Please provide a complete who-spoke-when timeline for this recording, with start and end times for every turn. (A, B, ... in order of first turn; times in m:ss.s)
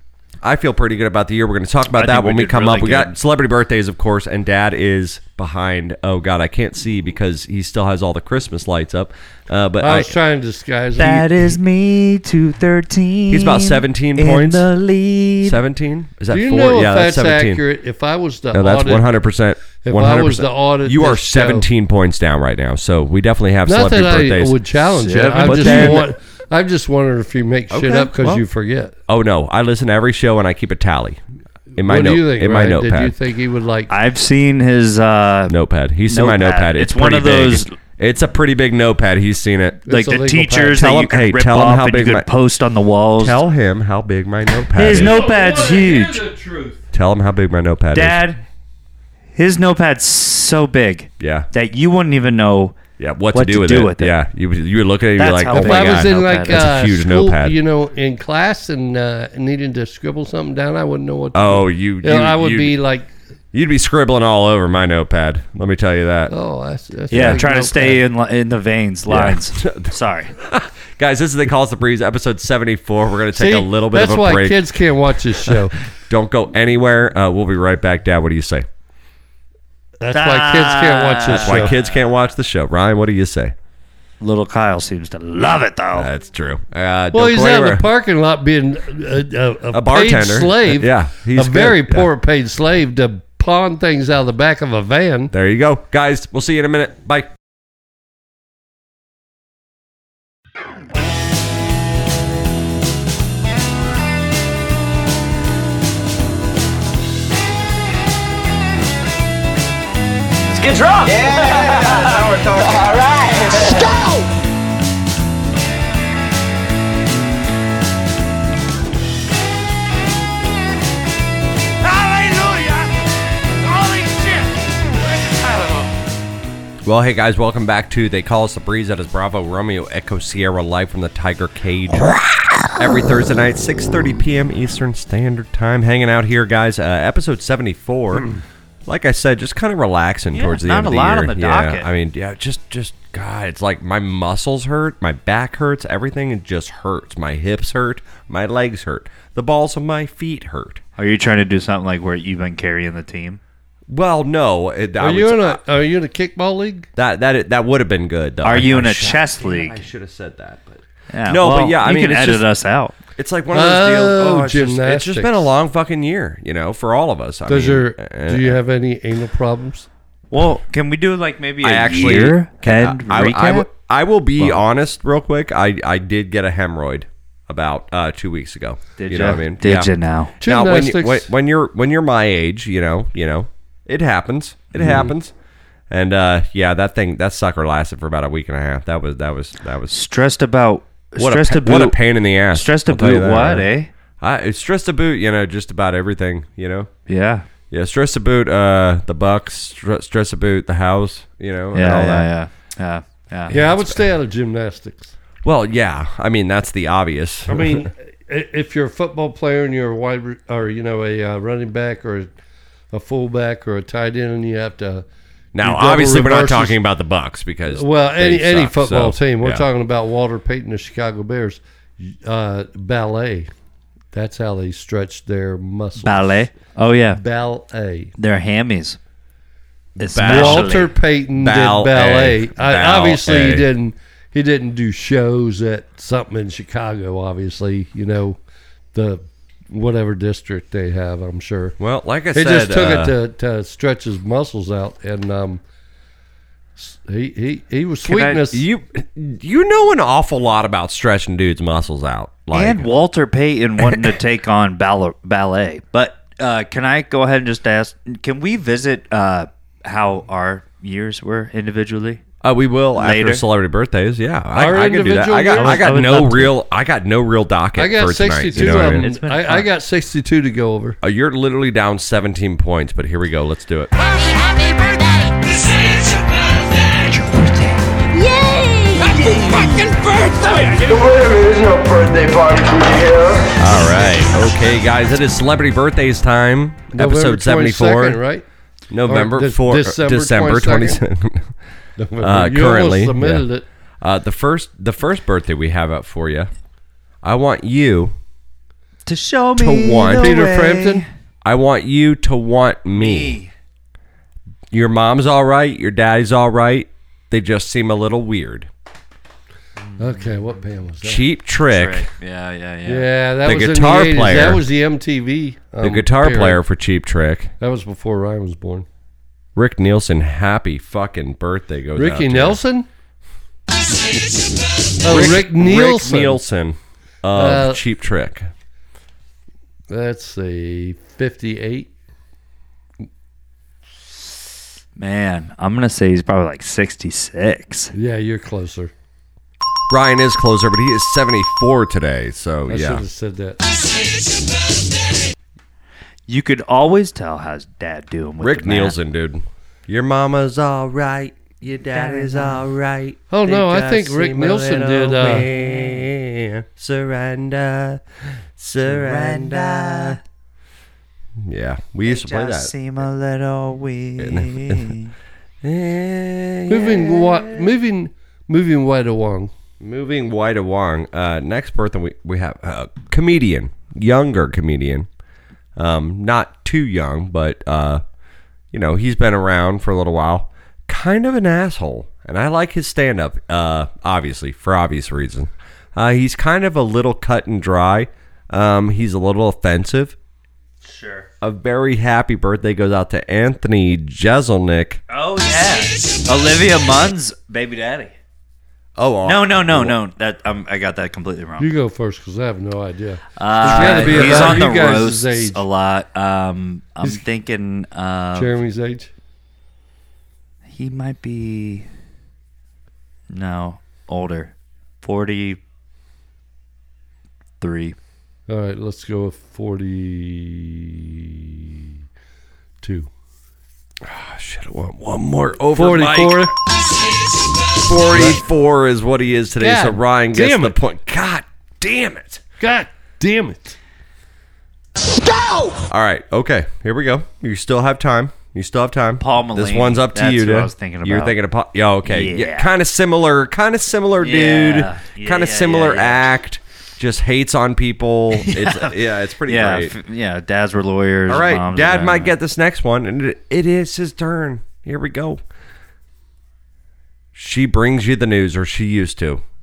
0:00.4-0:10.1 A
0:01.9-0:03.1 B
0:09.8-0:11.3 C
0:11.0-0:15.6 B
0:13.3-0:14.7 A
0:15.4-0:17.6 A
0:16.3-0:19.1 C
0:18.5-0:24.6 A
0:19.8-0:21.7 C
0:23.7-0:28.9 C
0:24.9-0:26.1 B
0:25.4-0:26.1 A
0:27.7-0:28.4 A
0:29.1-0:31.2 A
0:31.8-0:33.1 A
0:31.8-0:33.9 C
0:33.9-0:35.6 B
0:35.5-0:39.8 A
0:36.1-0:37.7 B
0:39.9-0:40.8 C
0:39.9-0:43.4 B
0:40.8-0:42.3 A
0:43.2-0:45.2 A
0:44.8-0:46.2 B
0:44.9-0:46.8 C
0:46.9-0:48.2 A
0:47.9-0:48.4 B
0:49.4-0:52.8 B
0:51.2-0:51.5 A
0:53.0-0:57.6 A
0:53.3-0:54.1 B
0:55.2-0:56.7 B
0:55.5-1:03.1 C
1:01.3-1:02.8 A
1:03.5-1:06.3 A
1:06.3-1:08.0 C
1:07.1-1:07.4 A
1:07.1-1:10.3 B
1:09.1-1:14.7 A
1:13.4-1:15.8 C
1:15.3-1:18.7 A
1:20.0-1:21.7 C
1:20.1-1:22.0 B
1:21.3-1:23.5 A
1:24.2-1:26.1 B
1:26.0-1:27.9 A
1:27.1-1:35.3 C
1:29.7-1:32.1 A
1:35.3-1:37.3 A
1:50.5-1:53.9 D
1:51.0-1:52.1 E
1:53.7-1:54.2 E
2:02.2-2:02.8 C
2:06.8-2:12.2 A
2:12.7-2:18.3 A
2:18.9-2:30.8 A
2:20.3-2:21.9 B
2:31.0-2:33.4 B
2:33.9-2:35.6 A
2:35.0-2:36.9 C
2:37.0-2:42.4 A
2:38.4-2:39.8 B
2:41.1-2:43.0 B
2:43.2-2:48.6 A
2:43.5-2:45.5 C
2:47.5-2:49.9 C
2:50.3-2:53.7 B
2:51.6-3:05.3 A
2:59.0-3:00.3 B
3:00.4-3:01.3 C
3:04.8-3:05.1 C
3:05.9-3:10.0 A
3:09.9-3:12.0 B
3:11.2-3:13.7 A
3:12.5-3:13.9 B
3:14.2-3:16.9 A
3:17.1-3:17.5 B
3:17.7-3:22.3 A
3:21.7-3:23.6 B
3:23.5-3:25.1 C
3:23.7-3:24.0 A
3:25.4-3:27.9 A
3:27.5-3:32.3 C
3:32.9-3:35.0 C
3:35.5-3:39.6 A
3:35.6-3:36.8 C
3:37.7-3:43.5 C
3:44.1-3:46.5 C
3:46.0-3:47.2 B
3:47.2-3:48.1 C
3:48.2-3:49.0 B
3:50.0-3:50.8 A
3:50.0-3:50.9 B
3:50.2-3:58.4 C
3:51.4-3:53.7 A
3:58.9-4:01.8 C
4:01.8-4:03.1 A
4:02.3-4:05.6 C
4:06.8-4:08.6 C
4:08.1-4:08.4 B
4:08.4-4:12.9 A
4:12.5-4:22.2 B
4:13.8-4:14.2 A
4:22.4-4:29.0 A
4:23.0-4:23.4 B
4:24.5-4:26.5 C
4:25.6-4:26.3 B
4:27.8-4:31.0 C
4:28.5-4:29.7 B
4:31.0-4:33.9 A
4:37.3-4:37.7 B
4:38.1-4:40.9 E
4:40.7-4:43.5 D
4:43.6-4:48.2 A
4:46.9-4:48.4 C
4:48.9-4:51.5 A
4:49.1-4:51.0 C
4:52.0-4:53.6 C
4:52.2-4:53.4 A
4:54.0-4:56.5 A
4:57.2-4:58.2 A
4:59.0-5:01.0 B
4:59.6-5:00.4 A
5:00.2-5:01.0 C
5:01.4-5:03.4 A
5:02.9-5:03.5 B
5:04.7-5:08.7 A
5:09.9-5:10.2 B
5:10.0-5:11.2 C
5:11.0-5:12.1 A
5:11.7-5:13.1 B
5:12.9-5:16.6 C
5:13.4-5:14.6 A
5:15.8-5:17.5 A
5:17.6-5:18.9 C
5:19.6-5:22.6 A
5:22.0-5:22.9 C
5:25.0-5:26.4 C
5:25.0-5:28.5 A
5:27.3-5:27.8 C
5:29.9-5:31.9 C
5:35.0-5:37.9 B
5:37.9-5:38.9 C
5:39.9-5:43.0 A
5:42.7-5:43.6 C
5:46.3-5:49.0 B
5:48.4-6:00.2 A
5:51.9-5:52.6 B
5:53.3-5:55.5 C
5:58.8-6:00.2 B
6:01.4-6:02.7 A
6:02.0-6:05.1 B
6:04.2-6:05.0 A
6:05.6-6:07.7 A
6:06.7-6:09.5 C
6:09.8-6:15.1 A
6:15.8-6:18.0 A
6:18.7-6:30.2 A
6:30.8-6:31.3 B
6:31.4-6:35.0 A
6:35.1-6:38.1 B
6:39.0-6:40.0 A
6:39.2-6:41.7 B
6:41.6-6:45.6 C
6:43.4-6:48.5 B
6:43.6-6:44.7 A
6:48.4-6:49.1 C
6:50.7-6:51.9 B
6:53.3-6:55.6 B
6:57.6-6:58.0 B
6:58.5-7:01.9 C
7:02.8-7:03.1 C
7:04.0-7:06.5 A
7:05.8-7:06.5 C
7:07.8-7:12.4 A
7:08.1-7:08.4 C
7:09.6-7:10.8 C
7:12.6-7:13.8 C
7:15.8-7:29.9 A
7:19.2-7:21.4 B
7:22.0-7:22.7 B
7:24.2-7:26.2 B
7:28.3-7:32.3 B
7:31.3-7:35.4 A
7:37.3-7:39.4 A